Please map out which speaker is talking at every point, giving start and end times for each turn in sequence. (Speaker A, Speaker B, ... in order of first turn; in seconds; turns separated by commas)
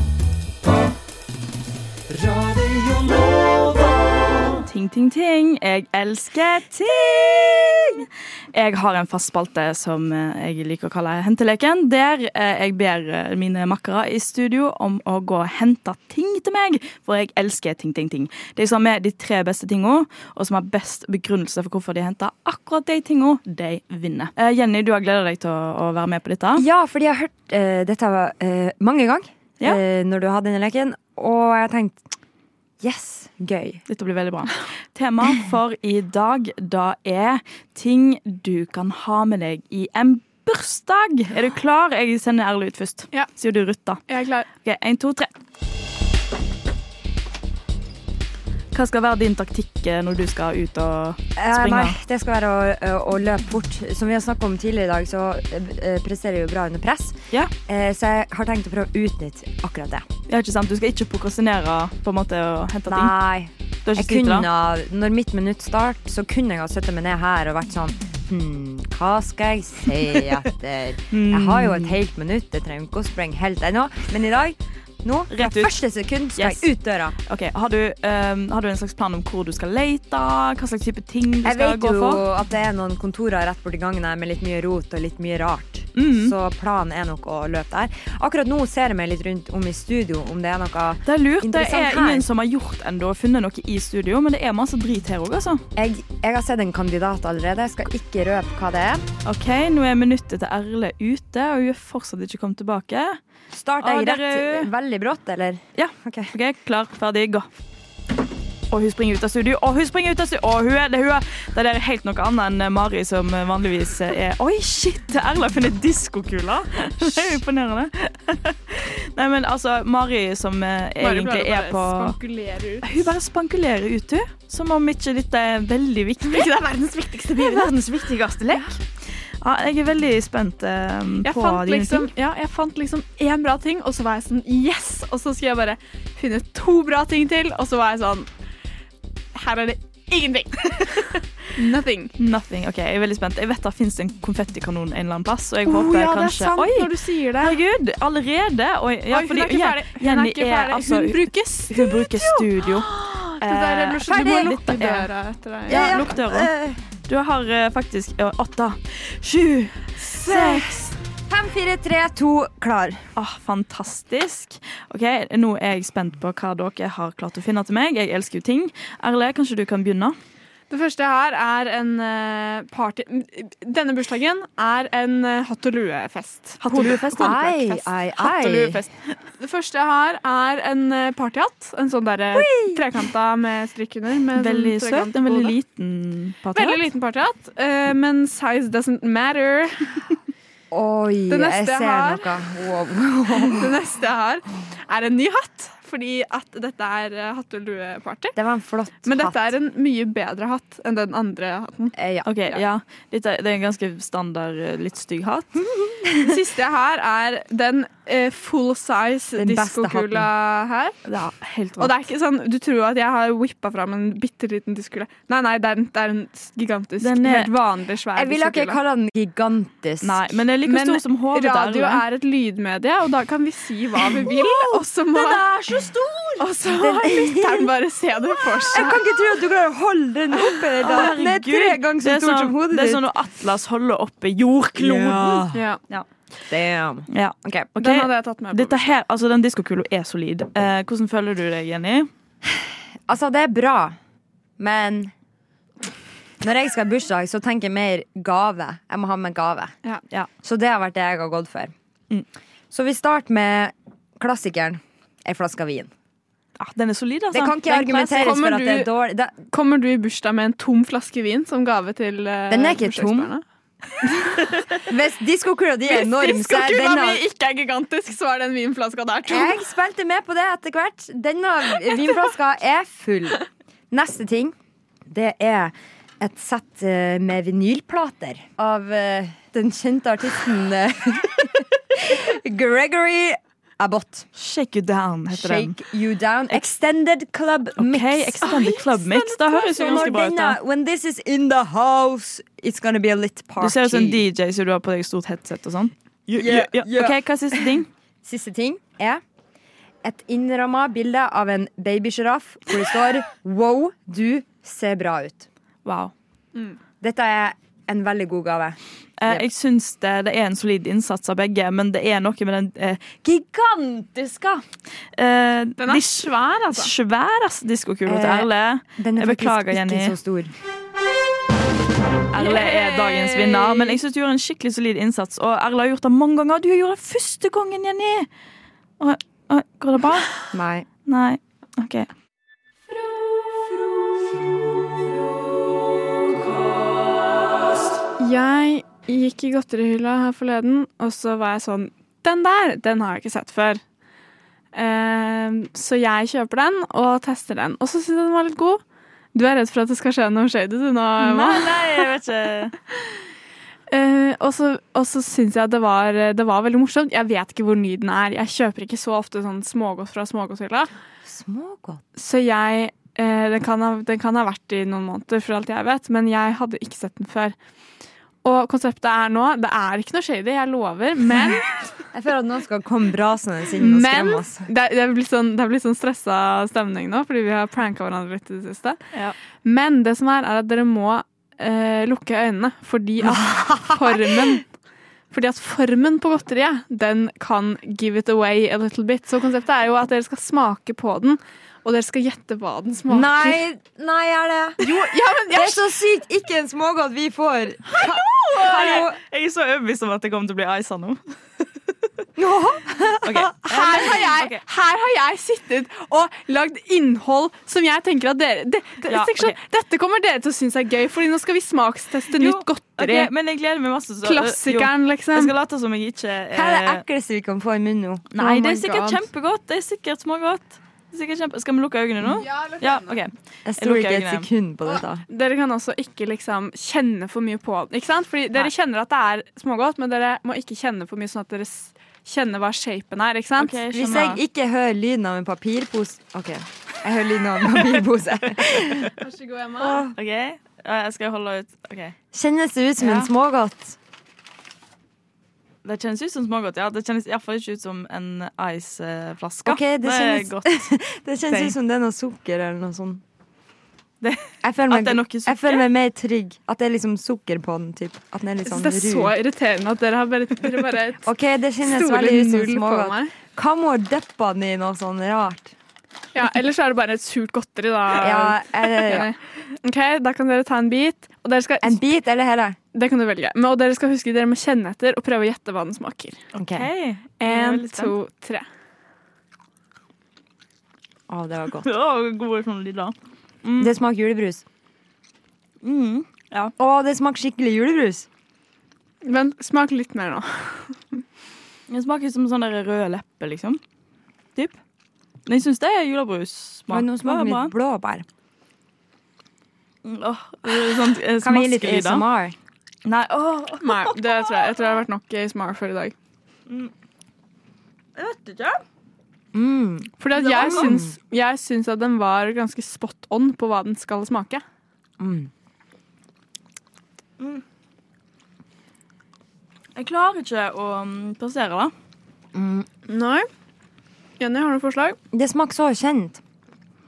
Speaker A: 4.6-7.8, Speaker B: 6.9-7.9, Speaker A: 8.5-26.6, Speaker B: 26.5-32.1, Speaker B: 32.8-33.8, Speaker A: 33.9-45.3, Speaker C: 44.1-44.5, Speaker A: 48.7-52.0, Speaker B: 51.4-60.1, Speaker A: 60.3-63.1, Speaker B: 62.9-77.1, Speaker A: 63.9-64.5, Speaker A: 71.1-72.0, Speaker A: 75.3-75.8, Speaker A: 76.3-76.7, Speaker A: 77.2-82.2, Speaker B: 81.4-92.3, Speaker A: 86.0-86.3, Speaker A: 91.0-95.6, Speaker B: 95.7-99.0, Speaker A: 99.2-103.2, Speaker B: 103.5-106.3, Speaker A: 103.8-104.7, Speaker A: 105.7-107.5, Speaker A: 108.7-122.2, Speaker C: 121.0-122.9, Speaker A: 122.8-126.5, Speaker C: 126.2-128.7, Speaker A: 127.3-128.8, Speaker A: 129.4-132.1, Speaker C: 131.2-138.3, Speaker C: 139.3-142.1, Speaker A: 142.2-155.1, Speaker C: 145.6-147.6, Speaker C: 149.1-156.0, Speaker A: 155.7-156.5, Speaker B: 155.7-156.8, Speaker A: 157.1-160.8, Speaker B: 160.1-163.0, Speaker A: 163.2-170.2, Speaker C: 170.7-177.4, Speaker A: 176.6-178.7, Speaker B: 176.7-178.8, Speaker C: 178.5-178.8, Speaker C: 179.4-185.6, Speaker B: 182.3-182.9, Speaker A: 184.3-186.9, Speaker C: 186.5-189.8, Speaker B: 190.7-193.7, Speaker C: 191.3-192.4, Speaker C: 193.3-198.3, Speaker B: 198.3-199.6, Speaker C: 199.0-201.9, Speaker B: 201.9-202.6, Speaker A: 202.2-205.7, Speaker C: 206.2-210.9, Speaker B: 209.3-210.3, Speaker A: 211.0-212.0, Speaker C: 211.8-218.8, Speaker A: 217.0-217.6, Speaker B: 218.1-220.3, Speaker A: 220.0-222.0, Speaker C: 220.6-225.5, Speaker A: 224.0-226.4, Speaker C: 226.4-229.0, Speaker B: 226.6-227.7, Speaker B: 228.7-233.1, Speaker A: 230.4-236.1, Speaker B: 234.7-235.7, Speaker C: 235.5-235.8, Speaker B: 236.5-237.7, Speaker A: 237.1-242.1, Speaker C: 237.8-238.9, Speaker B: 242.6-244.0, Speaker B: 244.6-245.1, Speaker B: 246.4-249.8, Speaker B: 250.4-251.7, Speaker B: 252.7-255.9, Speaker A: 256.6-258.4, Speaker B: 257.3-259.4, Speaker C: 258.1-258.9, Speaker C: 259.5-263.4, Speaker B: 262.5-263.3, Speaker B: 264.8-267.3, Speaker C: 265.8-269.6, Speaker B: 269.3-274.5, Speaker B: 275.1-284.3, Speaker A: 284.3-285.8, Speaker B: 285.3-294.2, Speaker A: 287.8-290.6, Speaker C: 288.4-290.1, Speaker A: 293.6-297.9, Speaker B: 296.3-299.2, Speaker B: 300.0-305.5, Speaker A: 305.8-306.1, Speaker B: 307.0-309.5, Speaker A: 309.2-313.5, Speaker B: 313.2-314.2, Speaker A: 314.1-314.5, Speaker A: 315.2-320.1, Speaker C: 315.8-316.9, Speaker B: 318.1-320.5, Speaker A: 322.3-328.3, Speaker B: 322.4-323.9, Speaker A: 329.0-330.4, Speaker B: 330.5-330.9, Speaker A: 331.1-332.1, Speaker C: 338.2-343.8, Speaker C: 344.7-348.8, Speaker C: 349.3-352.1, Speaker A: 351.2-352.7, Speaker C: 353.9-360.9, Speaker B: 361.2-362.0, Speaker C: 362.2-367.6, Speaker C: 368.4-371.9, Speaker B: 372.1-374.7, Speaker C: 373.8-379.0, Speaker C: 379.6-384.7, Speaker B: 383.2-384.6, Speaker C: 385.3-393.6, Speaker B: 393.1-399.2, Speaker C: 394.8-396.0, Speaker A: 397.9-401.2, Speaker C: 398.6-399.0, Speaker B: 402.4-404.0, Speaker A: 403.2-404.6, Speaker C: 403.4-413.3, Speaker A: 409.0-409.6, Speaker A: 412.3-417.0, Speaker C: 414.2-415.5, Speaker B: 416.5-418.5, Speaker A: 418.3-424.5, Speaker C: 418.4-419.2, Speaker C: 422.4-423.1, Speaker B: 423.6-425.2, Speaker C: 425.3-433.8, Speaker A: 433.6-434.4, Speaker B: 433.9-439.2, Speaker C: 439.2-440.1, Speaker A: 439.8-442.1, Speaker B: 439.8-440.1, Speaker B: 442.3-444.0, Speaker A: 443.0-443.3, Speaker A: 445.8-450.9, Speaker B: 449.6-453.2, Speaker A: 451.5-451.7, Speaker A: 454.2-455.9, Speaker B: 454.6-459.3, Speaker C: 458.6-461.2, Speaker B: 461.2-465.7, Speaker C: 461.8-463.3, Speaker C: 466.3-472.0, Speaker B: 468.1-469.3, Speaker B: 471.8-472.8, Speaker C: 472.9-476.4, Speaker B: 476.5-476.9, Speaker A: 476.5-478.1, Speaker C: 477.4-478.6, Speaker B: 481.3-481.9, Speaker A: 481.8-483.9, Speaker B: 483.8-484.6, Speaker A: 485.8-486.7, Speaker B: 486.8-488.3, Speaker C: 489.2-491.0, Speaker A: 491.9-493.8, Speaker A: 495.4-497.7, Speaker B: 496.9-498.2, Speaker A: 500.0-502.2, Speaker B: 501.4-502.5, Speaker A: 503.0-505.0, Speaker C: 503.8-506.1, Speaker A: 508.1-508.8, Speaker B: 509.5-511.1, Speaker C: 510.2-514.6, Speaker A: 510.3-511.0, Speaker B: 515.2-515.5, Speaker A: 519.9-521.9, Speaker B: 522.5-522.9, Speaker C: 523.1-523.5, Speaker C: 524.4-525.2, Speaker B: 525.3-526.4